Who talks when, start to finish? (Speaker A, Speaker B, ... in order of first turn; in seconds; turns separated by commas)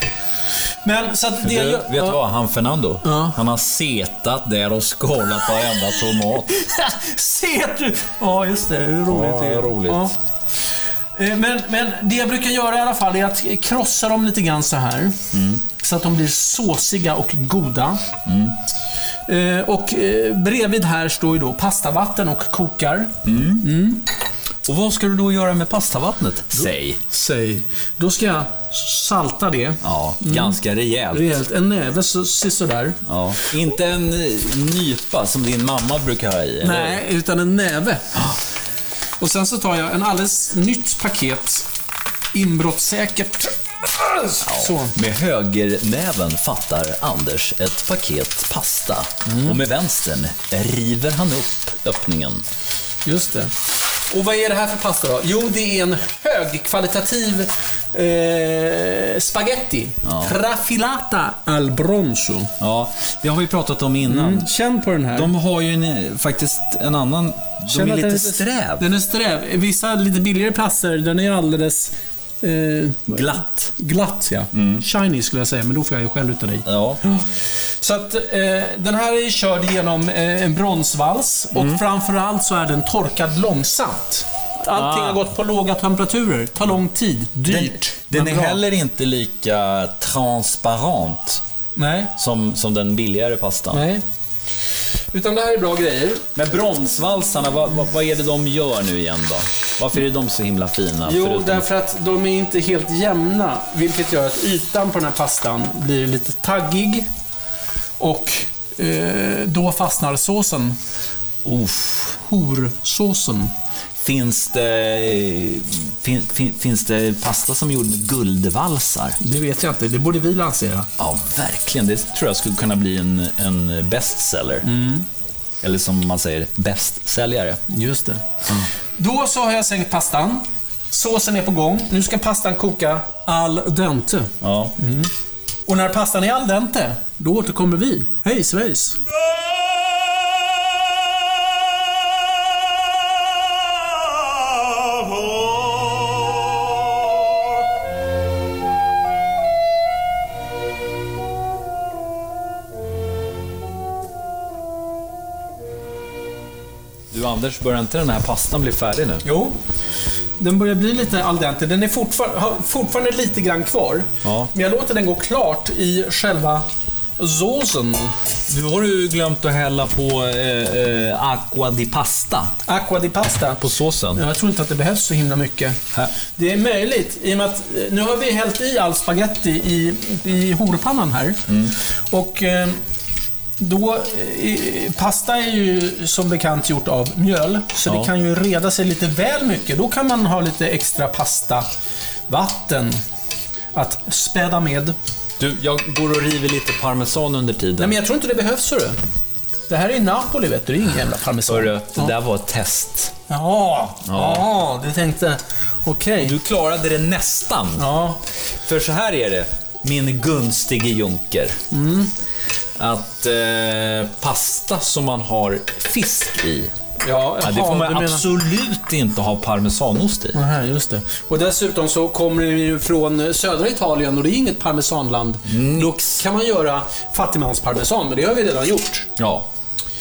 Speaker A: 0.8-2.2, Speaker B: 1.4-6.6, Speaker A: 3.0-3.4, Speaker A: 6.2-10.2, Speaker B: 9.1-10.1, Speaker A: 11.2-18.1, Speaker B: 15.3-15.6, Speaker B: 18.3-18.6, Speaker A: 19.3-24.1, Speaker B: 23.2-23.7, Speaker B: 24.6-27.0, Speaker A: 26.6-30.6, Speaker B: 29.8-31.3, Speaker A: 31.1-33.0, Speaker B: 33.0-37.0, Speaker A: 36.6-38.2, Speaker A: 39.2-41.7, Speaker A: 42.3-45.0, Speaker B: 44.4-52.5, Speaker A: 49.3-49.6, Speaker A: 53.0-53.5, Speaker A: 54.1-62.5, Speaker B: 60.0-60.4, Speaker B: 62.6-64.5, Speaker A: 64.0-65.3, Speaker B: 65.1-68.9, Speaker A: 67.7-88.6, Speaker B: 73.1-73.7, Speaker B: 74.5-74.9, Speaker B: 76.7-77.0, Speaker B: 81.5-81.8, Speaker B: 84.7-85.2, Speaker B: 87.5-91.4, Speaker A: 91.8-92.1, Speaker B: 92.2-93.8, Speaker A: 93.7-94.0, Speaker A: 95.1-96.3, Speaker B: 96.3-101.7, Speaker A: 101.0-107.1, Speaker A: 108.0-110.8, Speaker B: 111.4-112.2, Speaker A: 112.2-113.5, Speaker B: 114.0-119.2, Speaker A: 119.2-120.9, Speaker B: 121.0-124.7, Speaker A: 124.6-125.1, Speaker B: 125.6-127.6, Speaker A: 127.7-128.4, Speaker A: 129.0-135.1, Speaker B: 134.4-134.8, Speaker A: 135.7-139.0, Speaker B: 157.1-159.2, Speaker A: 159.2-159.6, Speaker A: 160.4-168.2, Speaker B: 164.2-164.5, Speaker B: 168.5-172.6, Speaker A: 172.7-175.8, Speaker B: 173.6-174.2, Speaker A: 176.3-181.5, Speaker B: 181.5-181.7, Speaker A: 182.1-182.8, Speaker A: 183.6-191.7, Speaker A: 192.3-193.0, Speaker A: 193.7-195.0, Speaker B: 195.4-198.0, Speaker A: 197.8-199.0, Speaker A: 199.7-202.2, Speaker B: 201.5-203.1, Speaker A: 203.3-206.3, Speaker B: 204.1-204.5, Speaker B: 206.2-207.9, Speaker A: 207.8-208.2, Speaker B: 208.6-211.6, Speaker A: 211.7-212.1, Speaker B: 212.8-216.7, Speaker A: 217.0-218.2, Speaker B: 217.4-220.4, Speaker A: 220.3-229.1, Speaker B: 225.5-226.2, Speaker B: 229.2-229.5